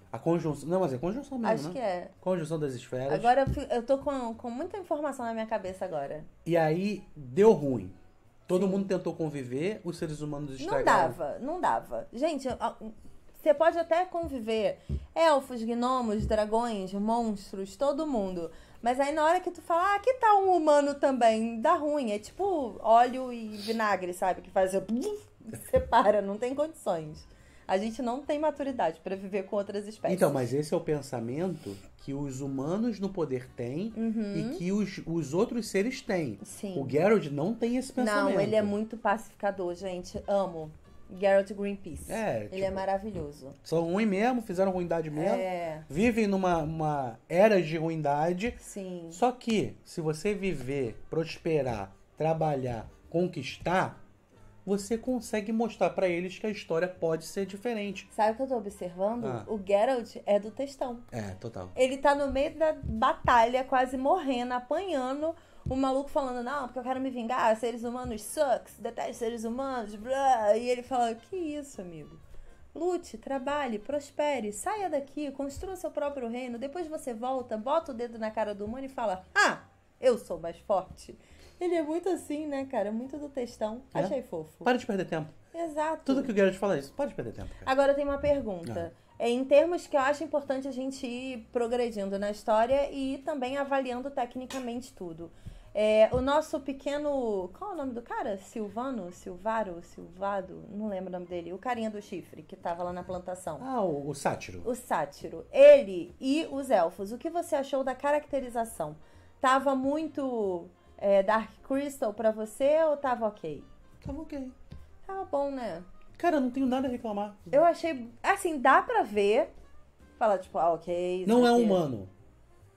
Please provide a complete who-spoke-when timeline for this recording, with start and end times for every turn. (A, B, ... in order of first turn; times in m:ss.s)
0:00.1-0:03.3 A
0:01.4-0:02.1 B
0:03.1-0:06.3 B
0:06.4-0:11.2 A
0:08.5-0:08.9 B
0:10.6-0:30.5 B
0:30.0-0:38.7 A
0:33.9-0:34.6 B
0:36.4-0:37.0 B
0:38.0-0:43.6 B
0:42.0-0:42.8 A
0:43.6-0:48.6 A
0:45.1-0:45.9 B
0:48.6-0:49.2 B
0:49.1-0:54.0 A
0:54.6-0:58.1 A
0:58.1-1:01.1 B
0:59.2-0:59.5 A
1:01.1-1:01.8 A
1:01.7-1:12.2 B
1:12.7-1:24.7 B
1:23.9-1:25.4 A
1:25.5-1:26.3 B
1:26.0-1:27.7 A
1:27.6-1:43.6 B
1:43.6-1:44.7 A
1:44.6-1:53.7 B
1:54.0-1:54.5 A
1:55.0-1:55.8 B
1:56.2-1:57.6 A
1:57.5-1:59.5 B
2:00.2-2:01.8 B
2:01.2-2:02.1 A